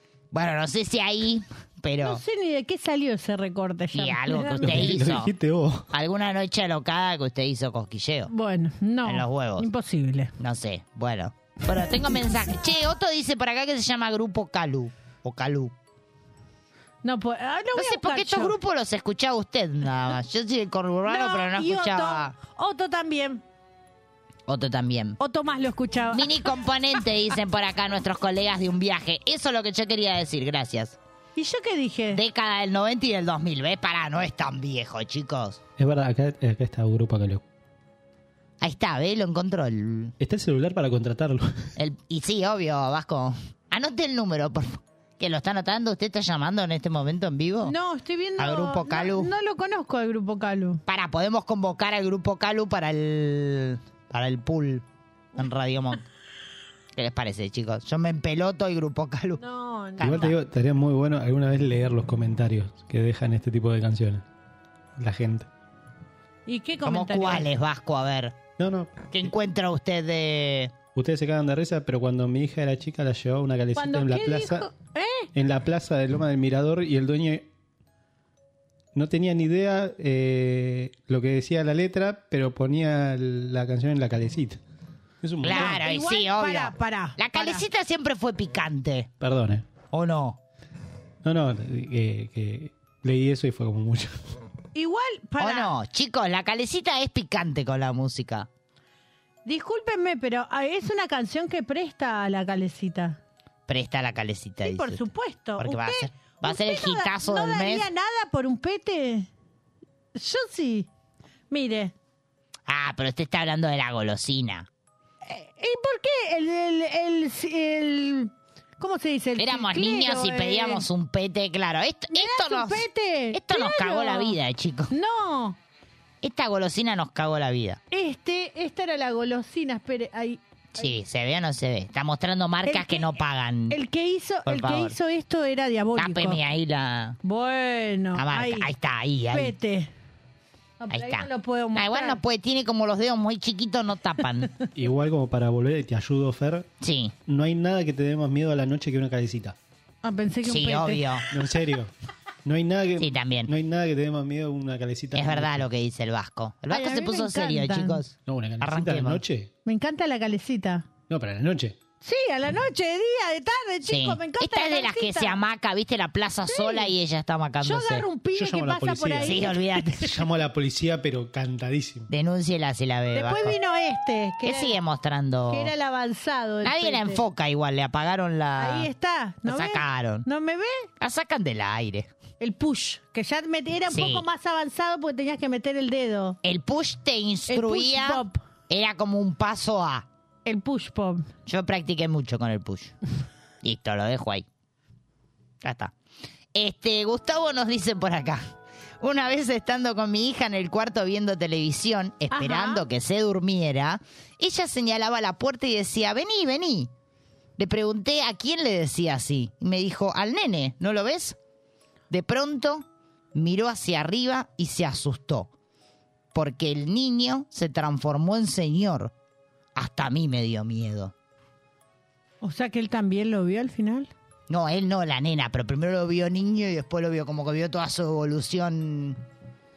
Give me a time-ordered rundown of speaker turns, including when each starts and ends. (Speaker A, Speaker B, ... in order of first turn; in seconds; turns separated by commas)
Speaker A: 0.3-2.2, Speaker B: 2.0-5.0, Speaker A: 3.9-5.3, Speaker C: 4.6-5.9, Speaker A: 5.9-8.3, Speaker B: 8.3-10.3, Speaker A: 9.1-9.7, Speaker A: 10.4-15.7, Speaker B: 17.0-18.6, Speaker A: 17.8-22.3, Speaker B: 21.1-23.4, Speaker A: 24.5-25.2, Speaker B: 25.2-26.5, Speaker A: 26.1-31.0, Speaker B: 31.4-32.2, Speaker A: 32.1-35.6, Speaker C: 35.8-37.4, Speaker A: 38.6-40.1, Speaker C: 40.2-41.7, Speaker A: 41.8-47.8, Speaker B: 47.6-50.8, Speaker A: 48.4-49.3, Speaker A: 50.9-56.0, Speaker A: 57.0-59.4, Speaker B: 59.4-60.3, Speaker A: 60.0-60.3, Speaker C: 60.0-64.2, Speaker C: 65.0-65.5, Speaker B: 66.5-67.5, Speaker A: 66.8-68.4, Speaker C: 68.6-69.3, Speaker A: 69.1-70.7, Speaker C: 71.0-74.7, Speaker B: 73.8-75.3, Speaker C: 75.3-77.5, Speaker C: 78.9-84.6, Speaker C: 85.2-85.8, Speaker A: 85.4-89.1, Speaker B: 85.5-87.6, Speaker C: 89.2-89.7, Speaker A: 89.9-90.4, Speaker C: 91.2-94.2, Speaker B: 94.8-95.7, Speaker A: 95.4-98.5, Speaker B: 99.5-103.2, Speaker A: 103.7-105.0, Speaker B: 104.6-109.3, Speaker A: 105.6-107.9, Speaker B: 110.2-110.9, Speaker B: 111.5-111.9, Speaker A: 112.7-114.7, Speaker B: 115.2-120.8, Speaker A: 119.4-124.9, Speaker B: 122.1-124.4, Speaker B: 124.9-125.6, Speaker A: 126.2-127.8, Speaker B: 127.9-130.8, Speaker A: 130.8-133.8, Speaker B: 132.7-133.2, Speaker B: 133.7-136.4, Speaker A: 134.5-135.0, Speaker A: 135.9-137.2, Speaker B: 137.2-138.7, Speaker A: 138.1-139.5, Speaker B: 139.3-139.9, Speaker B: 140.8-142.2, Speaker A: 140.9-144.5, Speaker C: 144.8-146.7, Speaker A: 146.8-147.2, Speaker C: 147.3-149.6, Speaker B: 150.0-151.1, Speaker A: 150.4-151.3, Speaker C: 151.3-151.9, Speaker C: 152.4-155.7, Speaker A: 153.0-153.5, Speaker A: 155.2-159.2, Speaker B: 156.7-158.0, Speaker C: 158.3-159.5, Speaker B: 159.7-160.9, Speaker C: 161.1-161.8, Speaker B: 162.0-165.4, Speaker A: 163.9-168.1, Speaker B: 166.5-166.9, Speaker B: 167.6-169.8, Speaker C: 168.3-172.1, Speaker A: 169.2-170.2, Speaker A: 172.1-173.6, Speaker B: 173.1-174.8, Speaker A: 174.4-175.7, Speaker B: 175.5-177.2, Speaker A: 176.6-178.9, Speaker B: 178.6-180.9, Speaker A: 179.5-180.3, Speaker A: 181.0-182.1, Speaker B: 182.4-186.4, Speaker A: 183.9-184.3, Speaker A: 186.4-190.1, Speaker B: 187.5-188.4, Speaker B: 190.4-191.3, Speaker A: 191.5-192.9, Speaker A: 193.6-194.5, Speaker A: 195.6-195.9, Speaker A: 196.5-206.9, Speaker B: 202.3-202.8, Speaker A: 207.6-211.4, Speaker A: 212.1-215.5, Speaker A: 216.3-219.1, Speaker A: 219.8-221.1, Speaker B: 222.4-224.1, Speaker A: 224.5-229.2